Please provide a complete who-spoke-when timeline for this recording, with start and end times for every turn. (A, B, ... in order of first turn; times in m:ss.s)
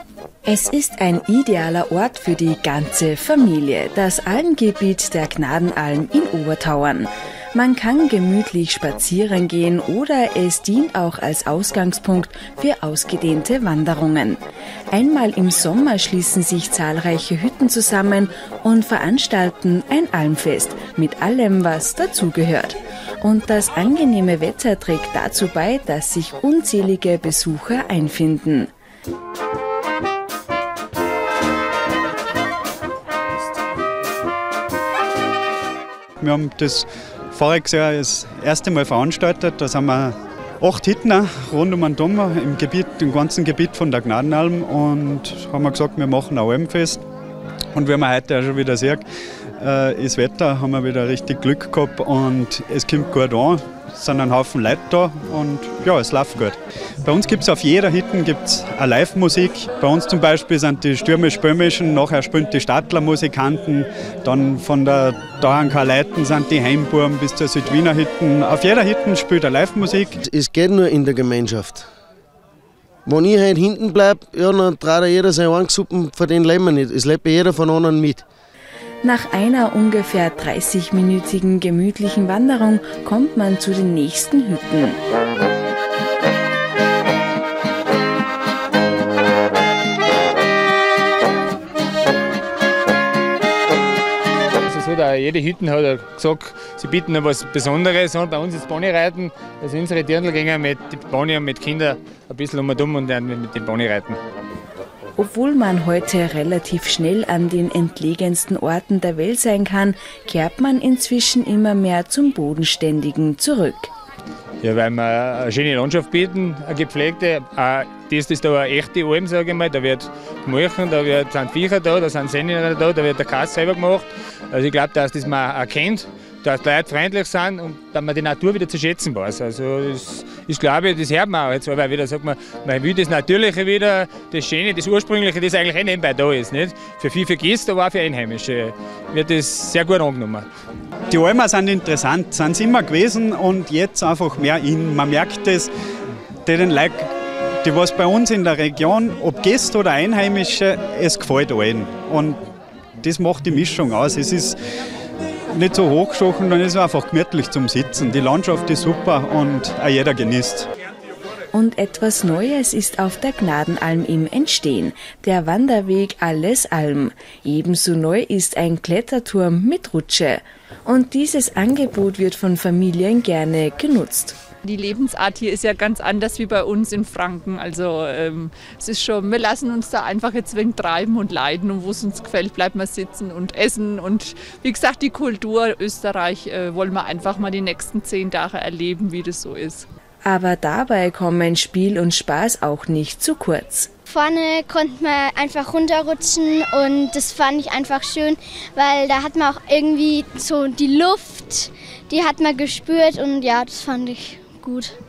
0:00.5-0:14.4 A
0:14.9-0:28.7 A
0:36.2-0:47.0 B
0:47.7-0:49.0 B
0:49.6-1:10.1 B
1:10.2-1:11.8 C
1:13.0-1:18.2 C
1:19.0-1:25.0 A
1:34.7-1:44.2 D
1:45.2-1:53.9 A
1:54.6-2:20.5 D
2:21.1-2:25.7 B
2:26.4-2:27.1 B
2:27.6-2:32.4 B
2:33.0-2:34.6 B
2:35.5-2:40.7 B
2:41.5-2:54.4 A
2:54.7-3:09.8 E
3:10.2-3:13.9 A
3:14.1-3:24.9 F